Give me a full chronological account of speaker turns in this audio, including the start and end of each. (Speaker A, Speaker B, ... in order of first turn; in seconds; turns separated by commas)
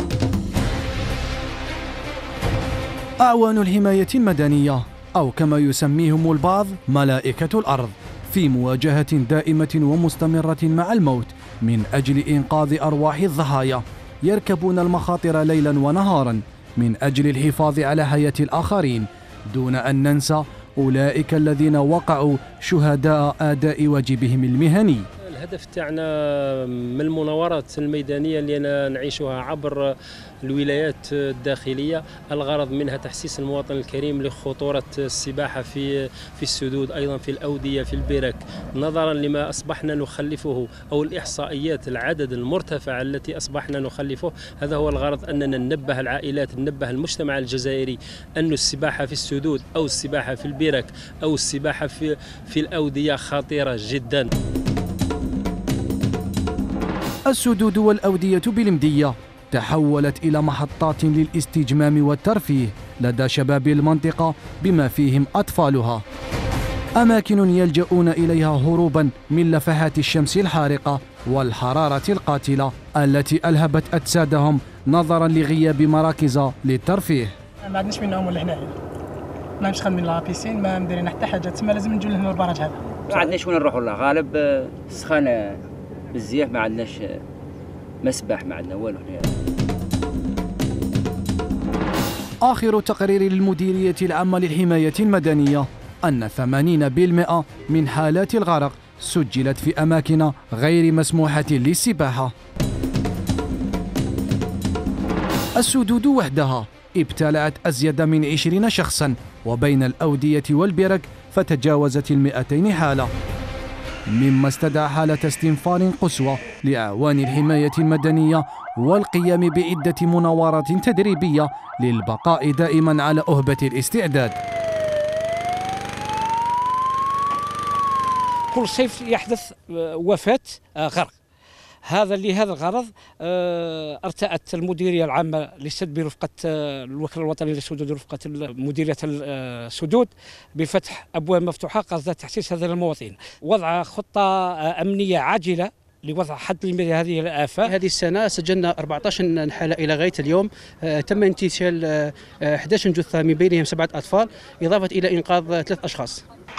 Speaker A: 3.2-25.1, Speaker B: 25.3-54.3, Speaker A: 57.3-66.0, Speaker A: 67.0-77.3, Speaker C: 77.6-78.7, Speaker C: 79.6-82.8, Speaker D: 83.1-85.6, Speaker D: 86.1-87.2, Speaker D: 88.0-89.3, Speaker A: 92.4-102.3, Speaker A: 105.6-113.1, Speaker A: 114.1-124.3, Speaker E: 128.5-131.1, Speaker E: 131.8-147.7, Speaker F: 147.6-156.2